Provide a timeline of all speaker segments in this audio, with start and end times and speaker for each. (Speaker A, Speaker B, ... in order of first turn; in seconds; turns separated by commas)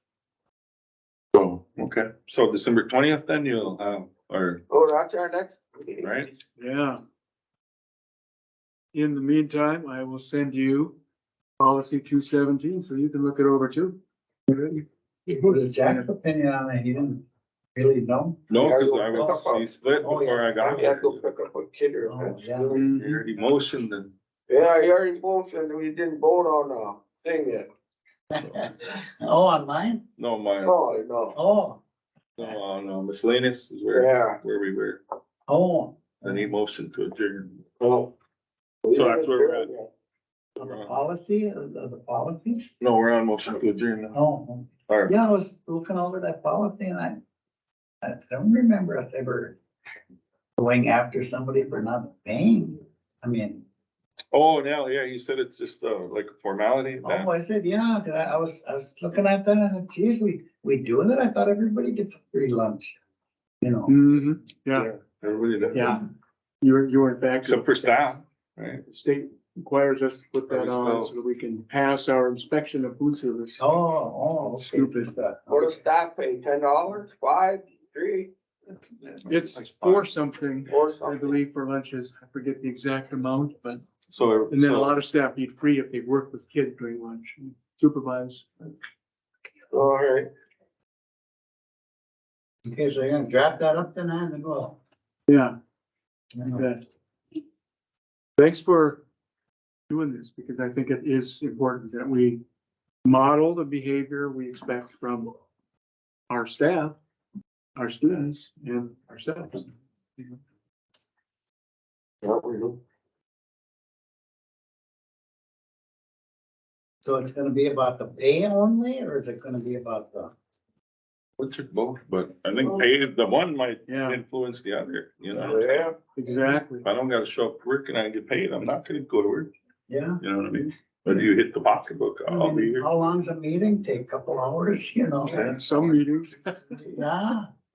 Speaker A: 1.3-4.6, Speaker B: 4.7-6.3, Speaker A: 6.0-6.3, Speaker C: 6.6-7.0, Speaker C: 8.9-10.9, Speaker C: 11.6-14.0, Speaker C: 14.5-14.8, Speaker D: 15.3-18.5, Speaker C: 15.4-16.1, Speaker A: 18.5-21.2, Speaker B: 18.6-19.7, Speaker D: 20.0-20.8, Speaker B: 20.6-22.8, Speaker D: 22.1-22.8, Speaker C: 22.7-23.2, Speaker A: 22.9-24.1, Speaker B: 24.5-27.7, Speaker D: 28.3-30.1, Speaker A: 30.2-30.8, Speaker B: 30.6-31.4, Speaker D: 31.3-31.8, Speaker A: 32.4-35.0, Speaker B: 33.9-34.4, Speaker D: 35.5-36.5, Speaker A: 36.2-37.6, Speaker B: 37.8-38.1, Speaker B: 38.8-39.9, Speaker A: 38.9-39.7, Speaker A: 40.6-41.0, Speaker D: 40.6-42.7, Speaker A: 42.8-44.2, Speaker D: 44.1-47.2, Speaker A: 44.9-45.1, Speaker D: 48.0-49.6, Speaker D: 50.6-53.6, Speaker A: 54.3-57.3, Speaker D: 57.0-63.0, Speaker D: 63.6-64.0, Speaker C: 63.9-64.9, Speaker A: 64.7-66.0, Speaker C: 65.7-66.0, Speaker C: 66.6-68.0, Speaker A: 67.4-68.8, Speaker C: 68.8-73.7, Speaker A: 70.5-71.1, Speaker D: 73.6-75.8, Speaker C: 74.5-75.1, Speaker B: 75.5-78.3, Speaker C: 79.3-83.8, Speaker A: 79.4-80.0, Speaker B: 80.7-81.4, Speaker A: 84.1-85.0, Speaker C: 84.5-88.5, Speaker B: 89.7-90.3, Speaker D: 92.7-94.8, Speaker C: 95.3-95.6, Speaker D: 96.3-96.7, Speaker C: 96.5-96.8, Speaker C: 98.4-99.0, Speaker C: 99.9-102.4, Speaker C: 103.0-105.3, Speaker C: 106.3-107.0, Speaker C: 107.8-110.4, Speaker B: 112.2-112.8, Speaker D: 117.0-120.3, Speaker A: 121.4-125.7, Speaker C: 123.9-124.2, Speaker B: 125.5-126.0, Speaker C: 126.1-126.9, Speaker A: 126.8-129.5, Speaker D: 129.9-130.2, Speaker A: 130.2-132.9, Speaker D: 132.3-135.5, Speaker A: 135.2-136.0, Speaker C: 135.5-136.8, Speaker D: 136.8-137.5